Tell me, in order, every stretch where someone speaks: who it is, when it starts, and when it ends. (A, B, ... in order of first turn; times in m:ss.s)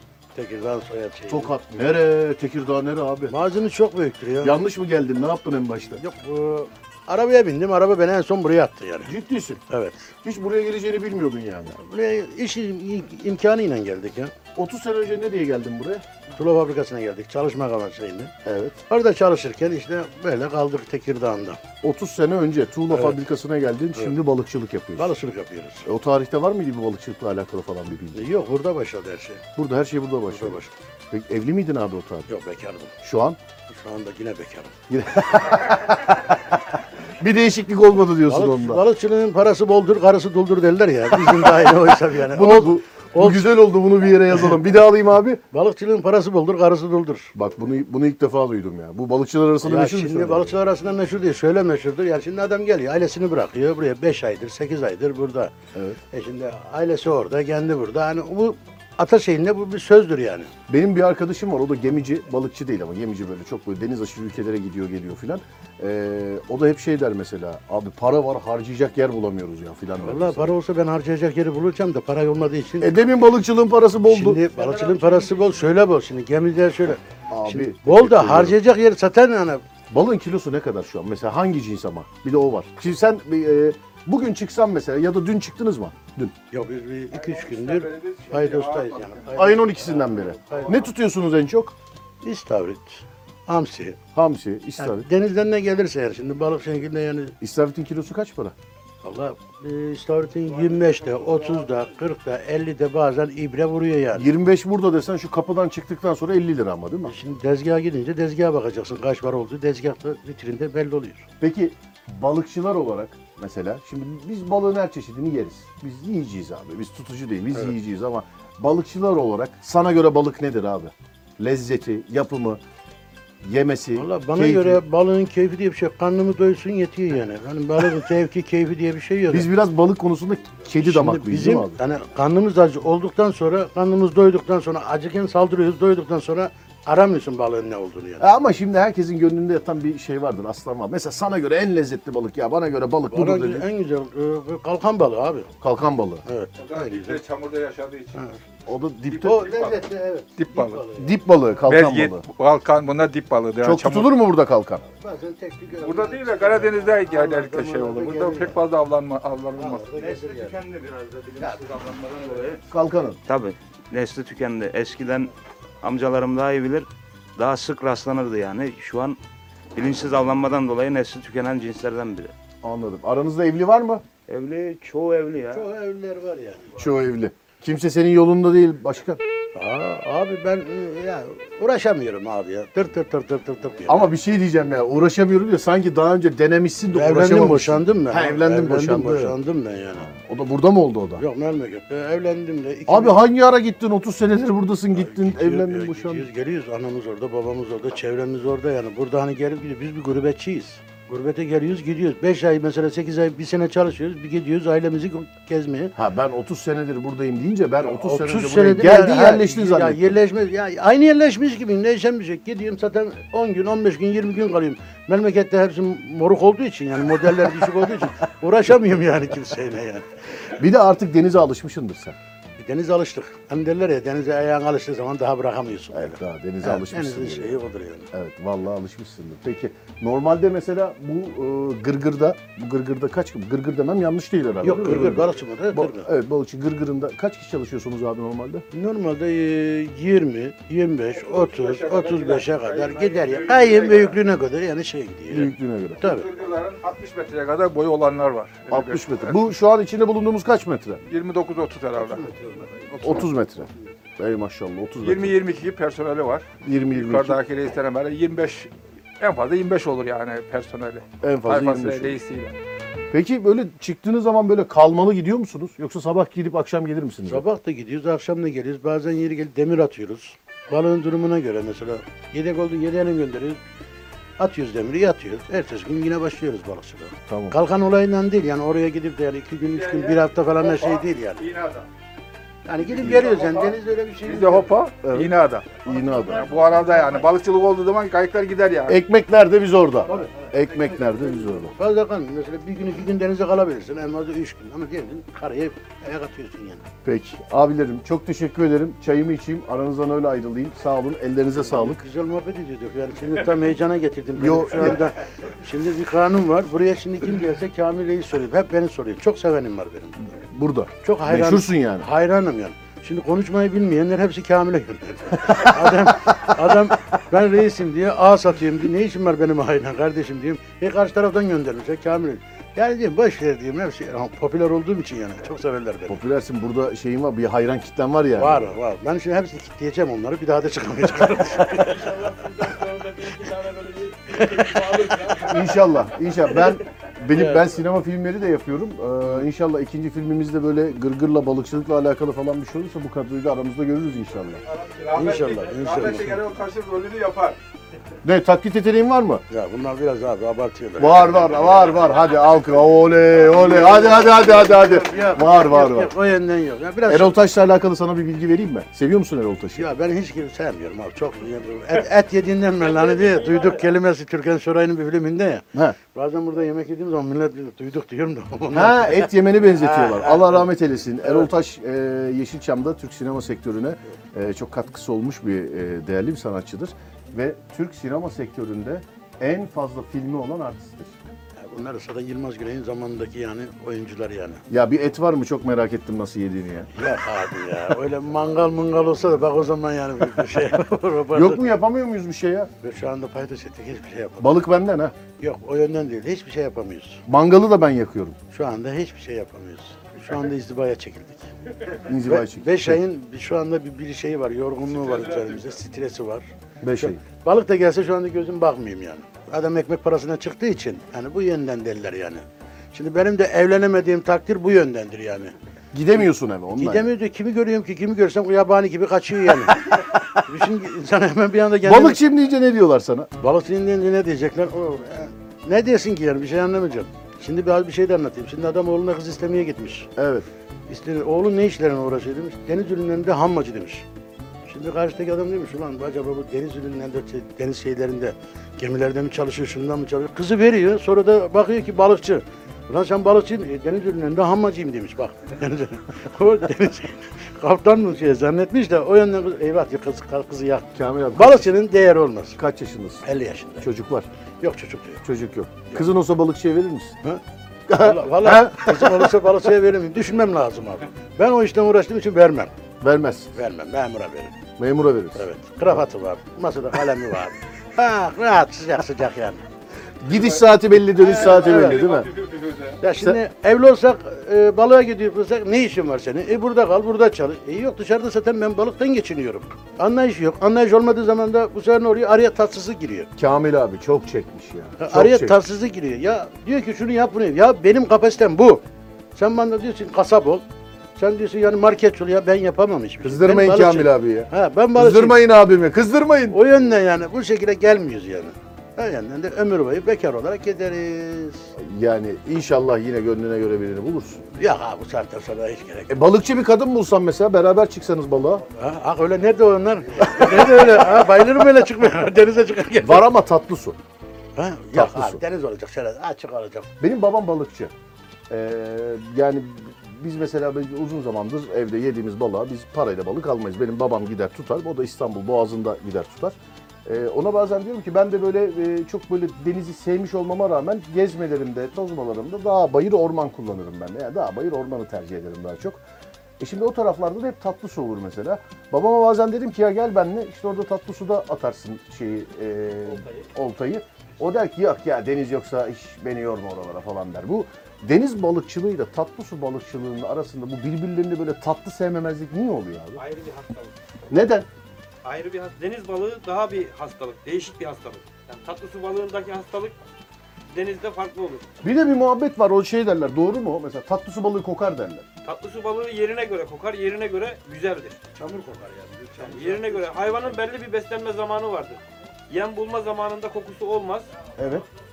0:00.4-0:01.5 A
0:01.3-0:03.4 B
0:03.3-0:04.6 A
0:04.4-0:06.0 B
0:06.0-0:09.1 A
0:09.0-0:09.6 B
0:09.7-0:10.1 A
0:10.2-0:11.8 B
0:11.8-0:14.3 A
0:14.6-0:16.0 B
0:16.4-0:18.3 A
0:18.4-0:18.8 B
0:18.9-0:21.6 A
0:21.8-0:25.1 B
0:22.9-0:23.2 A
0:25.0-0:25.9 A
0:25.8-0:28.2 B
0:28.2-0:29.4 A
0:29.6-0:30.6 B
0:30.3-0:30.7 A
0:31.1-0:32.3 B
0:32.3-0:32.9 A
0:33.0-0:33.4 B
0:33.7-0:34.7 A
0:34.9-0:36.6 B
0:37.2-0:38.8 B
0:38.3-0:43.6 A
0:41.3-0:41.7 B
0:42.3-0:45.4 B
0:45.5-0:47.3 A
0:47.4-0:50.6 B
0:49.6-0:55.5 A
0:56.1-1:00.5 A
1:00.7-1:10.6 B
1:10.0-1:13.0 A
1:12.8-1:14.4 B
1:14.1-1:19.6 A
1:17.3-1:18.6 B
1:19.9-1:26.3 B
1:26.5-1:30.8 A
1:27.1-1:29.4 C
1:29.4-1:31.8 B
1:30.4-1:30.7 C
1:32.2-1:34.0 A
1:34.2-1:35.1 B
1:34.8-1:37.4 A
1:37.4-1:38.6 B
1:39.0-1:44.3 A
1:40.8-1:41.5 C
1:44.2-1:47.1 B
1:47.0-1:51.3 A
1:51.4-2:02.6 B
2:03.4-2:04.8 B
2:04.0-2:09.5 A
2:09.3-2:11.8 B
2:10.8-2:18.3 A
2:18.2-2:23.7 B
2:23.1-2:25.5 A
2:25.6-2:26.2 B
2:26.3-2:27.2 A
2:26.6-2:28.2 C
2:28.2-2:28.4 A
2:28.7-2:29.5 B
2:29.1-2:29.8 C
2:29.2-2:31.1 A
2:30.4-2:30.8 C
2:31.0-2:32.2 B
2:31.7-2:34.1 C
2:33.6-2:34.8 B
2:35.0-2:38.6 A
2:35.8-2:39.9 C
2:39.6-2:40.6 A
2:40.0-2:42.6 D
2:42.7-2:43.2 B
2:43.3-2:45.3 D
2:45.8-2:49.2 D
2:49.8-2:52.3 D
2:52.6-2:54.0 B
2:54.3-2:55.7 D
2:55.5-2:56.8 A
2:56.8-2:59.2 B
2:59.5-3:04.1 A
3:03.9-3:09.4 B
3:06.9-3:10.1 A
3:10.0-3:11.2 B
3:11.2-3:13.2 A
3:12.9-3:16.3 B
3:15.0-3:26.0 A
3:26.0-3:30.2 B
3:27.9-3:40.1 A
3:40.6-3:42.2 B
3:42.6-3:48.1 A
3:45.9-3:58.6 B
3:54.6-3:56.1 A
3:58.7-4:06.3 A
4:01.2-4:04.2 C
4:05.3-4:06.0 B
4:06.0-4:09.4 C
4:08.7-4:11.0 B
4:11.1-4:13.2 C
4:12.2-4:12.6 A
4:13.0-4:15.4 B
4:15.0-4:22.5 C
4:16.6-4:17.4 B
4:21.2-4:22.2 B
4:23.1-4:27.4 B
4:27.3-4:33.6 A
4:34.4-4:41.5 A
4:37.3-4:37.6 B
4:39.6-4:41.9 C
4:42.7-4:44.7 A
4:43.0-4:45.8 C
4:45.0-4:46.5 B
4:46.3-4:49.0 C
4:48.9-4:51.7 B
4:50.1-4:50.4 A
4:51.7-4:56.8 A
4:57.0-5:02.0 B
5:01.6-5:10.3 A
5:04.4-5:05.0 B
5:10.3-5:12.1 B
5:11.0-5:26.2 A
5:15.5-5:16.4 B
5:26.1-5:28.7 B
5:28.4-5:35.8 A
5:35.3-5:44.6 B
5:37.3-5:37.8 A
5:44.9-5:47.6 C
5:45.1-5:46.4 A
5:48.2-5:49.4 B
5:49.5-5:52.0 A
5:51.0-5:56.1 B
5:53.4-5:57.4 A
5:57.1-5:59.9 B
5:59.8-6:10.7 A
6:08.7-6:21.3 B
6:21.6-6:24.6 A
6:24.7-6:26.9 B
6:27.0-6:31.7 A
6:31.3-6:32.7 B
6:32.8-6:34.6 A
6:34.4-6:35.2 B
6:35.4-6:37.2 A
6:37.3-6:38.4 B
6:38.5-6:41.5 A
6:42.0-6:43.0 B
6:42.1-6:46.5 A
6:46.8-6:47.2 B
6:47.0-6:55.5 A
6:55.9-6:57.1 B
6:56.8-7:02.2 A
6:59.9-7:00.2 B
7:01.8-7:03.3 B
7:03.4-7:10.1 A
7:10.2-7:10.5 B
7:10.9-7:14.0 A
7:14.7-7:32.6 A
7:31.0-7:31.8 B
7:32.6-7:33.3 B
7:33.2-7:33.9 A
7:33.8-7:34.3 B
7:34.6-7:35.2 A
7:35.2-7:37.2 B
7:37.9-7:39.5 B
7:38.0-7:42.7 A
7:43.0-7:43.5 B
7:43.6-7:44.6 A
7:44.8-7:45.4 B
7:45.4-7:49.6 A
7:50.2-7:52.3 B
7:51.2-7:52.3 A
7:52.1-7:52.9 C
7:53.0-8:03.3 A
8:03.4-8:05.6 B
8:05.0-8:08.8 A
8:09.4-8:10.6 A
8:11.2-8:15.4 A
8:13.2-8:16.6 B
8:16.5-8:21.7 A
8:21.8-8:24.4 B
8:24.6-8:26.2 A
8:26.1-8:28.6 B
8:28.8-8:33.3 A
8:30.4-8:30.9 B
8:33.0-8:34.0 B
8:34.6-8:36.9 A
8:34.9-8:35.4 B
8:37.0-8:37.9 B
8:38.5-8:56.0 B
8:56.6-9:13.2 B
9:03.1-9:03.5 E
9:13.2-9:13.9 E
9:14.3-9:14.7 B
9:15.2-9:20.0 E
9:20.7-9:21.6 E
9:21.8-9:25.2 B
9:25.4-9:28.3 E
9:28.4-9:30.6 A
9:29.4-9:34.3 E
9:34.6-9:34.9 B